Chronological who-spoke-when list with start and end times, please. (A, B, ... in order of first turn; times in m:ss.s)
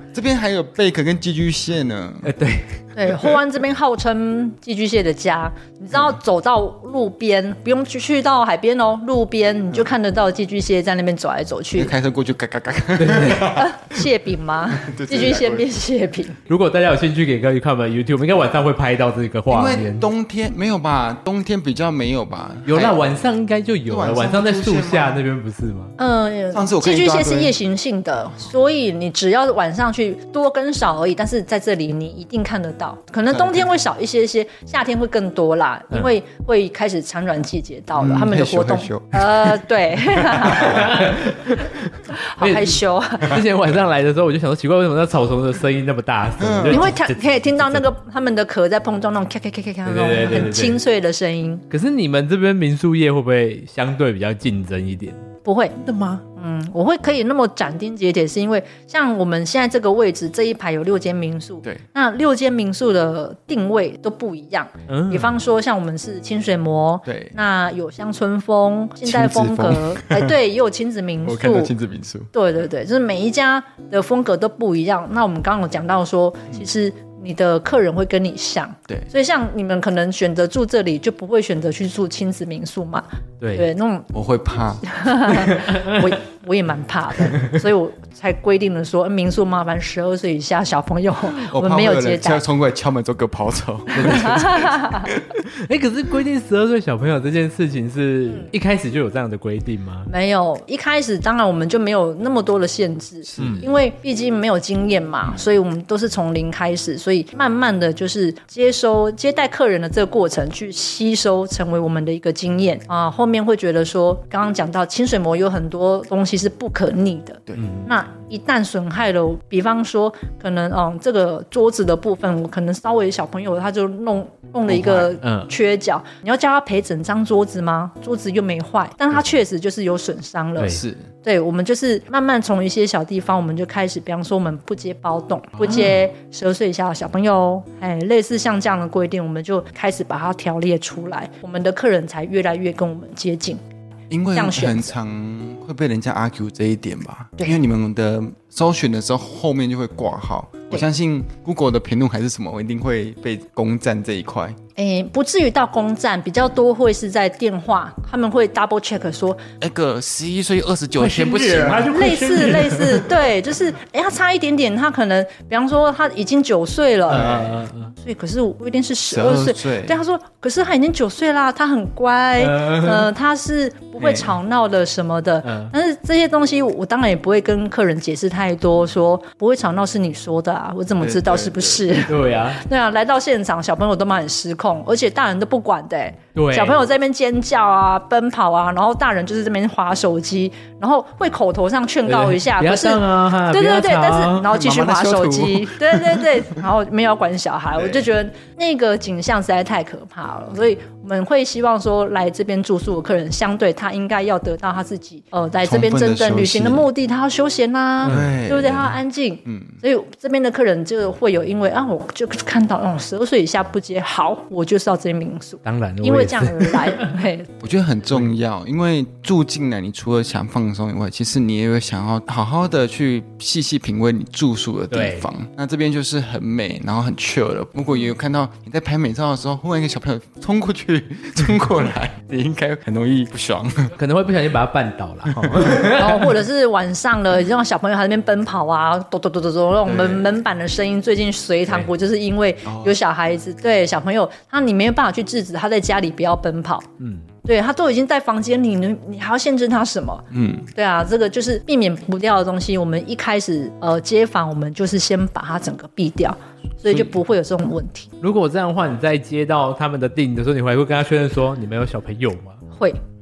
0:00.1-0:02.3 A
0:02.2-0:02.8 B
0:03.0-0:11.9 C
0:11.8-0:14.1 A
0:13.0-0:13.6 B
0:13.5-0:16.4 C
0:14.7-0:15.7 A
0:16.5-0:20.0 B
0:19.5-0:23.0 A
0:22.7-0:26.0 B
0:23.9-0:25.2 A
0:26.0-0:41.1 C
0:26.5-0:27.5 A
0:33.3-0:33.6 A
0:38.0-0:39.6 A
0:40.4-0:40.8 A
0:40.4-0:47.8 B
0:42.2-0:43.4 C
0:46.4-0:46.9 A
0:46.7-0:51.6 C
0:49.8-0:50.8 B
0:51.7-0:55.2 B
0:55.4-1:11.7 C
0:55.8-0:56.2 B
1:04.9-1:05.4 B
1:07.1-1:07.4 A
1:09.0-1:10.4 A
1:11.2-1:12.3 A
1:12.3-1:24.1 C
1:23.4-1:23.7 B
1:24.1-1:24.9 A
1:24.9-1:32.4 C
1:25.3-1:26.1 B
1:27.3-1:27.6 B
1:31.4-1:35.4 A
1:34.0-1:34.5 B
1:34.0-1:35.1 C
1:35.5-1:40.1 B
1:40.1-2:23.6 C
1:43.3-1:43.7 A
1:43.4-1:43.6 B
1:57.6-1:57.9 B
2:04.7-2:05.2 A
2:05.2-2:05.5 B
2:10.7-2:11.1 A
2:15.6-2:16.0 A
2:24.1-2:34.6 A
2:24.4-2:25.0 C
2:34.8-2:39.4 C
2:39.6-2:41.9 A
2:41.0-2:43.1 B
2:41.8-2:47.4 C
2:47.1-2:47.9 B
2:47.1-2:47.5 A
2:48.0-3:37.6 C
2:49.1-2:50.0 A
2:52.4-2:53.1 B
2:54.0-2:54.3 A
2:55.4-2:55.7 B
3:01.0-3:01.9 A
3:02.1-3:02.6 B
3:06.4-3:06.8 B
3:12.1-3:14.5 B
3:14.5-3:16.5 A
3:17.8-3:18.0 A
3:25.6-3:26.9 A
3:28.0-3:28.3 B
3:28.1-3:29.8 A
3:35.6-3:37.1 B
3:37.6-3:53.9 A
3:44.9-3:45.3 B
3:54.0-3:56.3 B
3:55.3-3:55.8 A
3:55.9-4:06.9 C
3:59.9-4:00.3 A
4:02.7-4:03.0 A
4:07.0-4:07.3 B
4:07.4-4:18.1 C
4:10.3-4:10.7 A
4:18.2-4:22.6 B